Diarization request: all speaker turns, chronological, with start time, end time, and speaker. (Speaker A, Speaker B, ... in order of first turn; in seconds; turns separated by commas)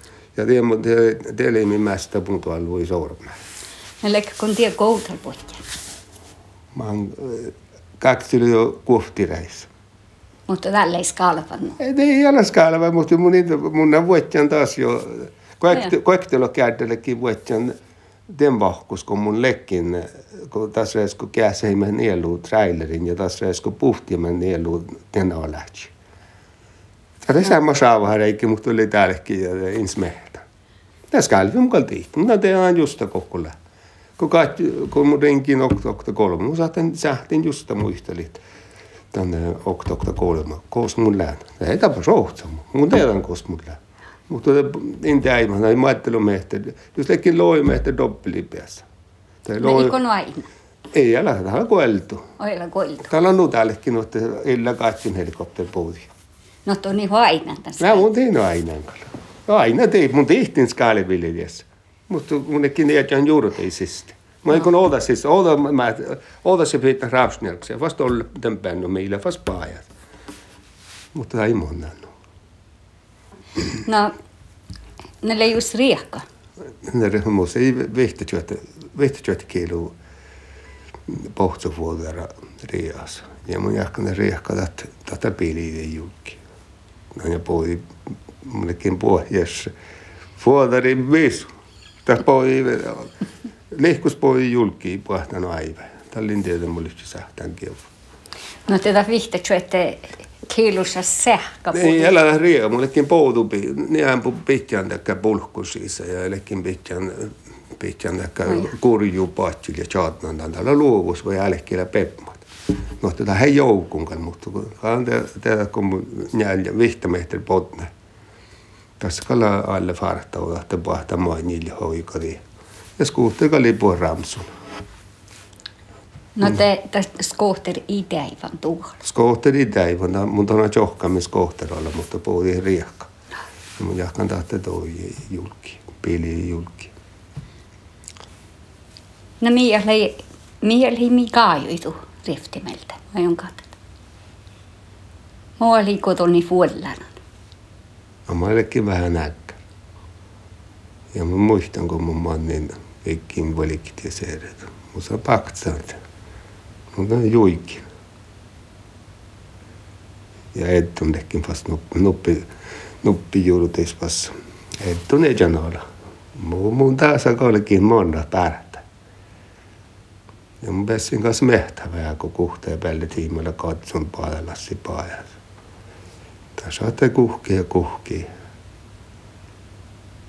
Speaker A: 0.4-3.4, Speaker B: 4.0-5.6, Speaker A: 6.7-9.7, Speaker B: 10.5-11.8, Speaker A: 11.8-17.8, Speaker A: 18.3-25.9, Speaker A: 27.2-30.4, Speaker A: 31.1-33.6, Speaker A: 34.2-38.4, Speaker A: 39.1-48.9, Speaker A: 49.4-50.0, Speaker B: 49.6-50.5, Speaker A: 50.9-52.3, Speaker B: 52.4-53.1, Speaker A: 53.1-56.1, Speaker B: 56.6-58.1, Speaker A: 57.8-69.9, Speaker A: 71.1-72.1, Speaker B: 73.8-74.2, Speaker B: 75.2-76.2, Speaker A: 76.8-79.9, Speaker A: 81.1-86.4, Speaker A: 87.2-89.7, Speaker A: 90.4-91.5, Speaker A: 92.1-93.1, Speaker A: 93.7-97.9, Speaker B: 98.7-102.2, Speaker A: 101.7-112.5, Speaker A: 113.0-117.9, Speaker A: 119.0-122.4, Speaker A: 123.0-124.5, Speaker B: 126.3-128.9, Speaker A: 129.0-133.1, Speaker A: 133.8-136.9, Speaker B: 139.4-143.7, Speaker B: 145.6-147.2, Speaker A: 148.3-149.6, Speaker A: 151.1-156.0, Speaker A: 156.9-157.8, Speaker A: 160.5-162.5, Speaker A: 163.0-165.8, Speaker A: 166.3-168.8, Speaker A: 170.6-175.4, Speaker A: 176.6-178.3